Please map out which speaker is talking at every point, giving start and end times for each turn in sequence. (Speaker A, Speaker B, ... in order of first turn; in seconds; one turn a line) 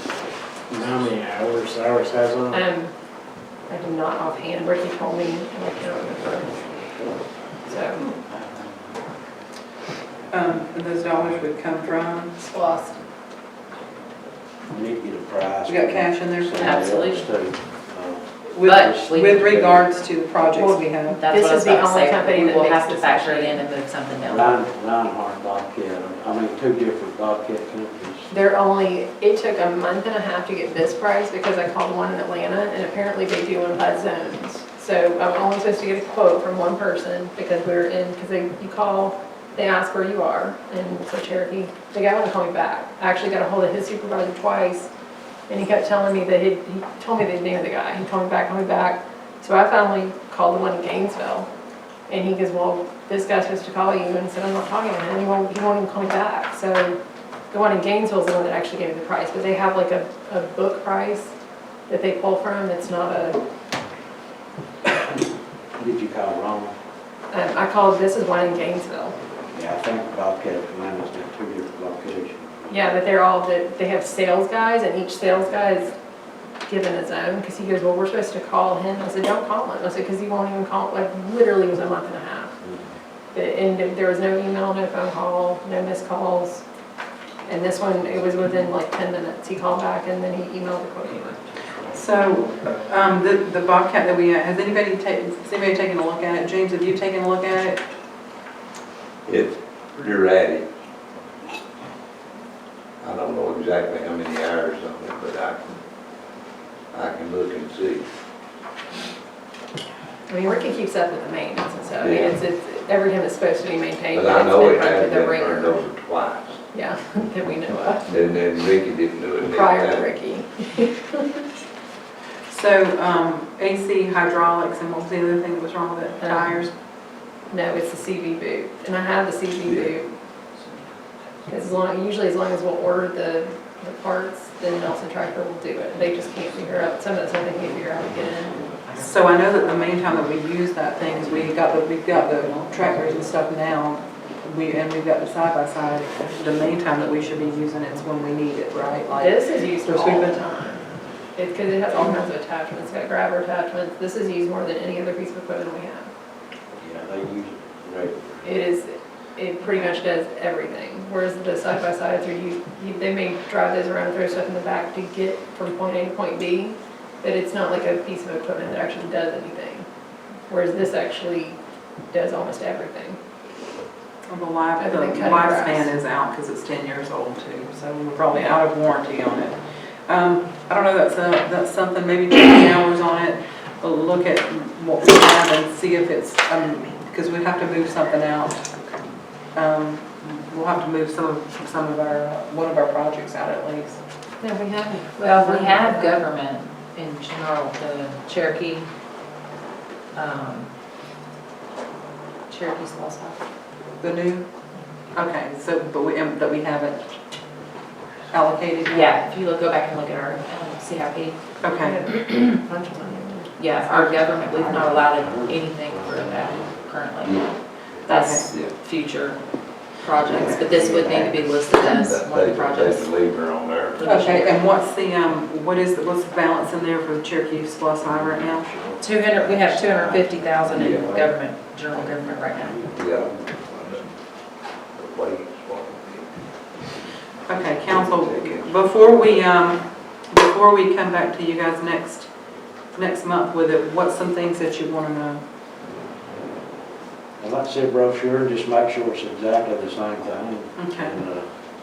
Speaker A: 0.7-2.6
Speaker B: 2.5-2.9
Speaker B: 3.7-6.6
Speaker B: 7.7-8.1
Speaker C: 10.3-12.4
Speaker B: 12.4-13.0
Speaker D: 14.7-19.9
Speaker C: 15.7-16.9
Speaker E: 16.6-17.3
Speaker C: 18.5-21.2
Speaker E: 18.6-19.5
Speaker B: 20.5-23.6
Speaker E: 21.1-24.6
Speaker D: 24.2-28.3
Speaker B: 28.3-44.9
Speaker B: 45.5-51.5
Speaker B: 52.1-57.0
Speaker B: 57.5-61.3
Speaker B: 61.9-63.4
Speaker D: 65.8-66.7
Speaker B: 67.3-69.2
Speaker D: 69.5-72.8
Speaker B: 72.7-75.9
Speaker B: 76.7-82.5
Speaker B: 83.3-86.7
Speaker B: 87.5-91.4
Speaker C: 91.9-97.8
Speaker F: 99.3-100.7
Speaker F: 103.0-105.8
Speaker F: 106.9-108.1
Speaker B: 110.3-115.9
Speaker F: 112.0-112.4
Speaker F: 114.1-116.6
Speaker B: 116.7-118.2
Speaker F: 118.1-120.1
Speaker B: 119.5-121.4
Speaker C: 122.5-126.7
Speaker B: 126.2-126.7
Speaker B: 127.5-130.1
Speaker B: 131.5-138.7
Speaker C: 139.0-150.4
Speaker B: 149.1-150.8
Speaker B: 151.3-156.1
Speaker D: 156.8-158.5
Speaker B: 158.4-169.9
Speaker B: 170.5-171.6
Speaker B: 172.1-173.2
Speaker C: 174.3-188.7
Speaker B: 174.8-175.9
Speaker C: 189.5-194.0
Speaker B: 194.4-196.2
Speaker E: 195.2-198.9
Speaker E: 200.2-200.7
Speaker E: 202.5-203.4
Speaker C: 204.0-204.5
Speaker C: 205.1-207.1
Speaker C: 208.3-209.2
Speaker E: 208.9-211.4
Speaker C: 211.6-212.0
Speaker B: 211.8-214.9
Speaker E: 212.2-212.6
Speaker E: 213.6-217.5
Speaker D: 214.7-217.1
Speaker F: 217.2-218.7
Speaker C: 218.1-218.6
Speaker E: 218.1-219.4
Speaker E: 219.9-223.1
Speaker F: 220.3-224.2
Speaker D: 220.4-221.1
Speaker E: 224.0-224.6
Speaker C: 224.0-228.8
Speaker D: 228.4-234.1
Speaker E: 229.0-232.8
Speaker F: 230.7-231.2
Speaker F: 232.9-233.4
Speaker F: 234.9-236.3
Speaker C: 237.5-242.3
Speaker F: 237.8-239.4
Speaker C: 242.9-245.4
Speaker D: 247.4-251.5
Speaker C: 250.8-251.2